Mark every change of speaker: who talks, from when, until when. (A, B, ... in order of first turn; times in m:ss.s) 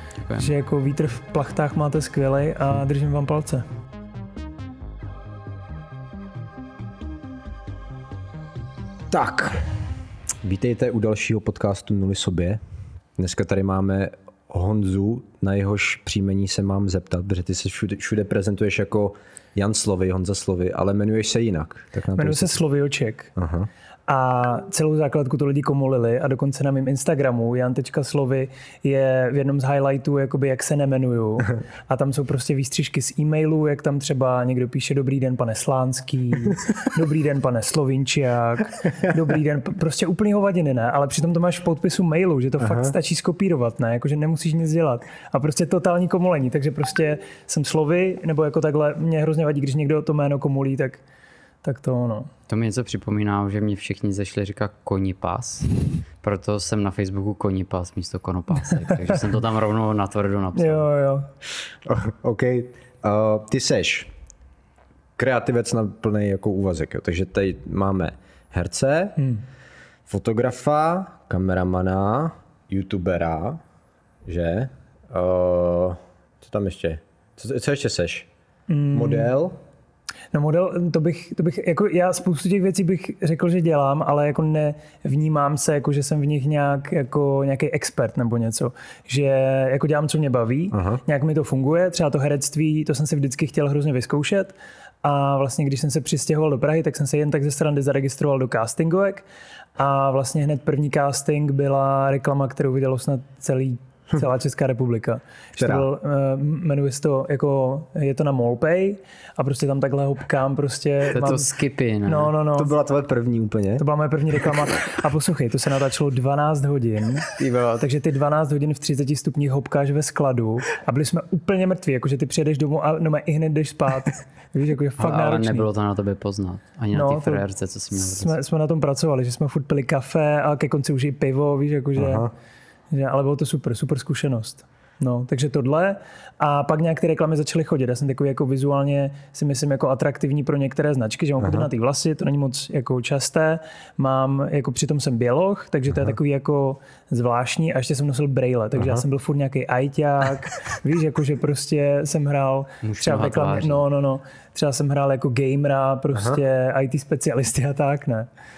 0:00.3-0:00.5 A
0:00.4-0:03.7 B
0:09.1-0:09.8 C
0:10.4-0:12.6 C
0:13.2-0:22.6 C
0:22.2-0:23.3 B
0:23.4-0:23.7 C
0:24.1-0:51.0 B
0:42.6-0:43.0 C
0:51.6-0:52.3 B
0:52.5-1:00.8 A
1:00.6-1:01.3 B
1:01.8-1:04.1 C
1:05.2-1:09.2 C
1:09.2-1:09.4 B
1:10.1-1:13.6 C
1:14.3-1:18.3 C
1:18.7-1:19.3 B
1:18.9-1:19.6 C
1:20.3-1:39.2 B
1:30.7-1:31.0 C
1:39.8-1:51.5 B
1:45.6-1:45.9 C
1:51.1-1:52.3 A
1:52.1-1:52.7 B
1:52.5-1:53.9 C
1:53.8-2:05.7 B
1:57.3-1:57.8 A
2:05.0-2:08.4 A
2:06.9-2:12.3 B
2:12.0-2:12.3 C
2:12.9-2:38.3 B
2:21.4-2:21.7 C
2:28.8-2:29.0 C
2:32.8-2:33.8 A
2:36.1-2:36.4 C